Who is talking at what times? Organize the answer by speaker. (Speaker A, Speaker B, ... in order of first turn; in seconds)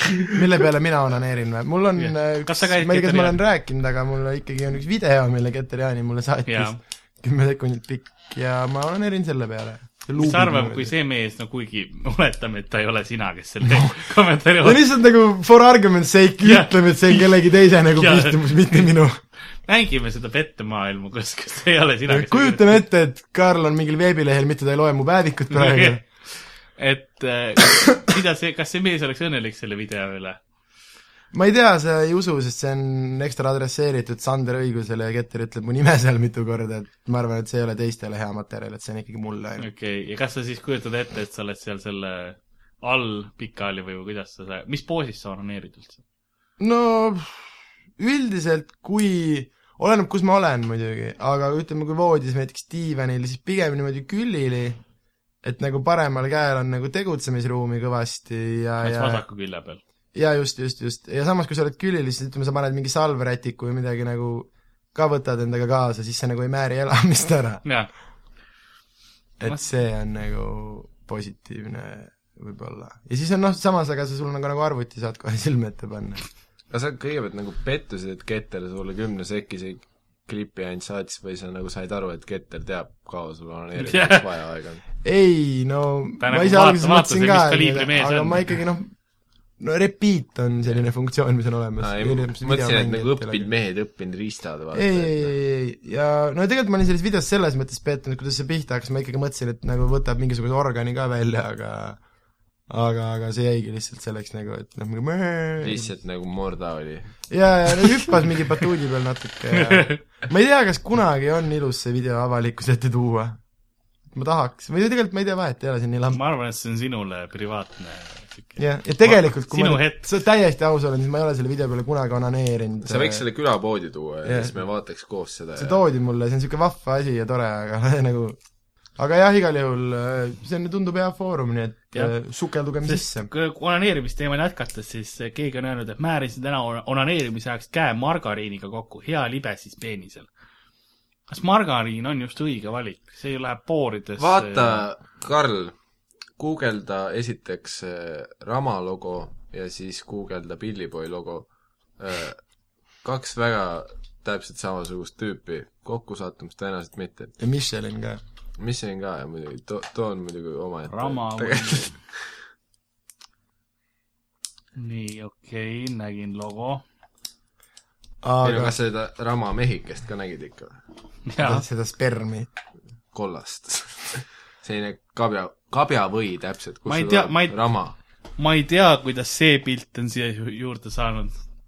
Speaker A: 0.3-10.9, 13.6-13.9, 14.6-19.2, 22.1-26.0, 31.3-39.7, 46.6-54.8, 55.4-59.2, 60.1-67.6, 69.4-76.2, 85.0-89.0, 89.6-93.5, 94.7-102.0, 102.7-105.9, 107.3-113.4, 114.1-116.2, 118.6-123.2, 124.2-124.5, 125.6-128.4, 129.0-133.3, 157.4-158.2, 168.2-168.8, 171.4-172.5
Speaker B: 2.0-3.4, 6.5-6.8, 10.2-14.8, 16.4-17.3, 17.9-18.8, 19.7-22.8, 25.5-26.0, 26.8-30.4, 39.6-46.0, 58.8-59.8, 67.6-67.9, 83.8-84.2, 86.2-88.6, 109.5-110.0, 116.1-120.1, 132.8-140.3, 141.3-144.9, 160.9-161.9, 164.8-166.8, 171.3-171.6, 176.9-177.6, 178.4-181.3
Speaker C: 76.7-84.8, 91.8-95.3, 105.6-107.2, 122.8-125.8, 144.2-145.8, 146.4-152.4, 153.0-157.3, 158.6-162.2, 168.4-170.8, 173.1-178.0